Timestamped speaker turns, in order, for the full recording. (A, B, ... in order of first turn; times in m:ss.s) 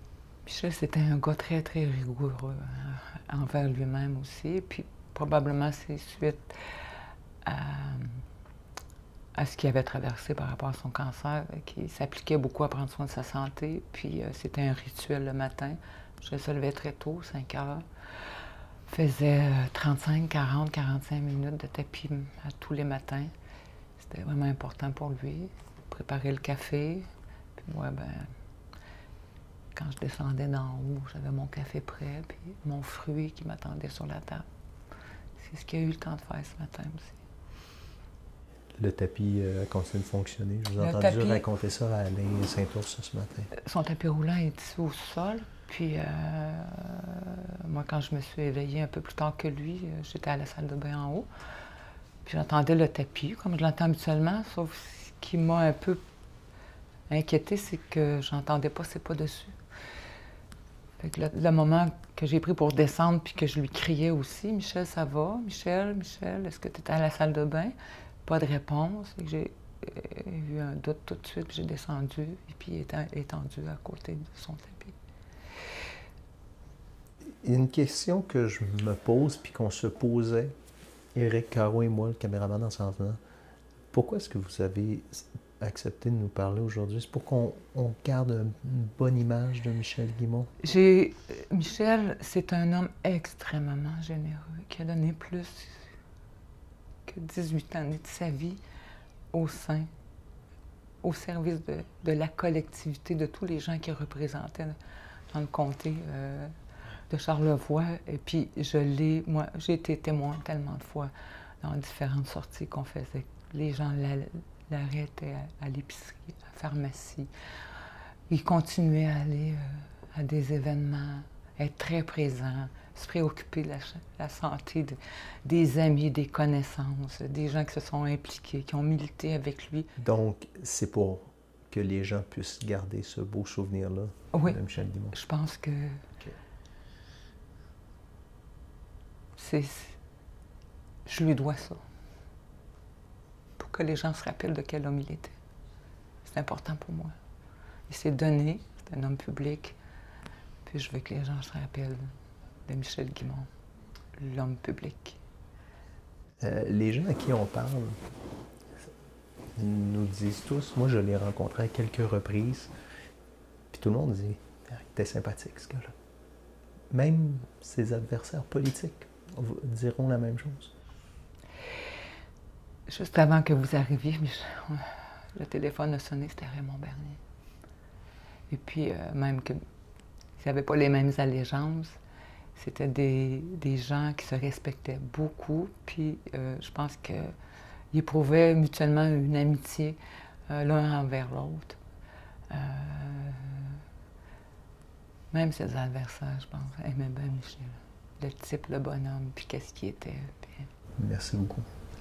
0:00.4-0:06.8 A
0:07.4-0:08.2 A
0:09.3-0:23.3 A
0:24.0-0:28.3 A
0:29.7-0:34.5 A
0:35.4-0:37.2 A
0:38.8-0:43.5 B
0:40.8-0:41.4 A
0:43.5-0:51.3 A
0:52.2-0:56.0 A
0:57.1-0:59.6 A
1:01.0-1:15.0 A
1:17.4-1:20.5 B
1:21.1-1:23.2 B
1:23.9-1:30.5 B
1:30.6-1:35.8 A
1:37.1-1:38.6 A
1:39.3-1:39.9 A
1:41.0-1:44.8 A
1:45.3-1:46.5 A
1:47.1-1:57.3 A
1:58.3-2:09.9 A
2:10.0-2:15.2 B
2:14.3-2:14.6 A
2:15.1-2:16.0 A
2:19.4-2:20.0 A
2:21.0-2:21.8 A
2:23.6-2:25.3 A
2:26.2-2:27.1 A
2:27.9-2:29.8 A
2:30.6-2:32.1 A
2:32.6-2:33.5 A
2:34.2-2:35.2 A
2:36.4-2:38.0 B
2:39.6-2:42.7 B
2:43.7-2:45.9 B
2:46.9-2:50.7 B
2:52.9-2:57.2 A
2:58.5-2:59.6 A
3:00.4-3:02.0 A
3:02.5-3:07.4 A
3:07.9-3:11.8 A
3:12.5-3:13.8 A
3:15.3-3:20.7 A
3:21.0-3:21.7 B